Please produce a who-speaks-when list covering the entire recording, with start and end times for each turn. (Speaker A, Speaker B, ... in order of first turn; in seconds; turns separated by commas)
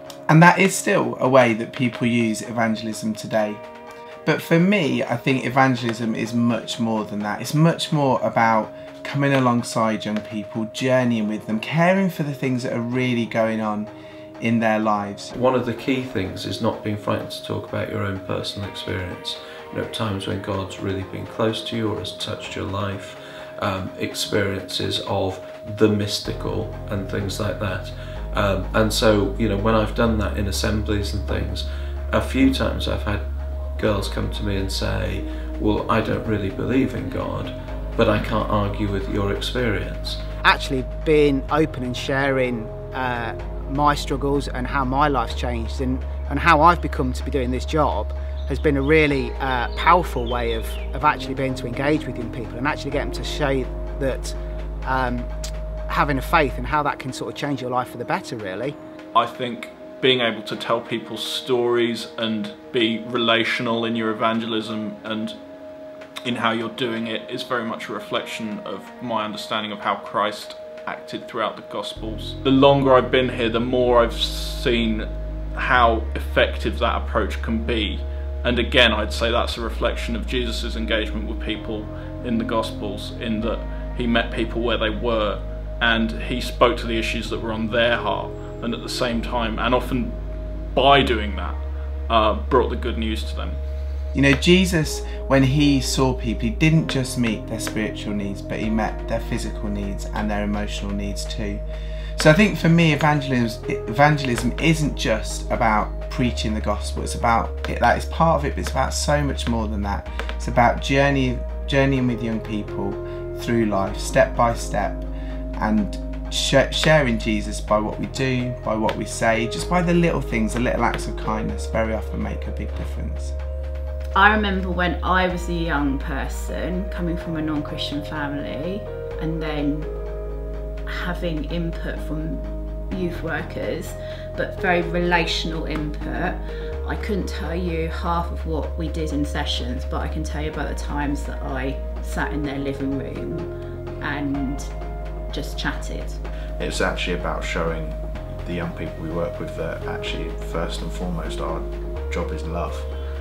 Speaker A: 0.3-3.6, Speaker A: 4.2-13.9, Speaker A: 14.4-15.3, Speaker B: 15.3-33.2, Speaker B: 33.8-40.2, Speaker C: 40.4-55.3, Speaker C: 55.9-58.8, Speaker D: 59.1-65.3, Speaker D: 66.2-90.2, Speaker D: 90.7-93.6, Speaker A: 94.1-101.6, Speaker A: 102.2-123.3, Speaker E: 124.1-129.9, Speaker E: 130.9-143.5, Speaker E: 144.0-144.7, Speaker E: 145.3-146.2, Speaker F: 146.6-152.9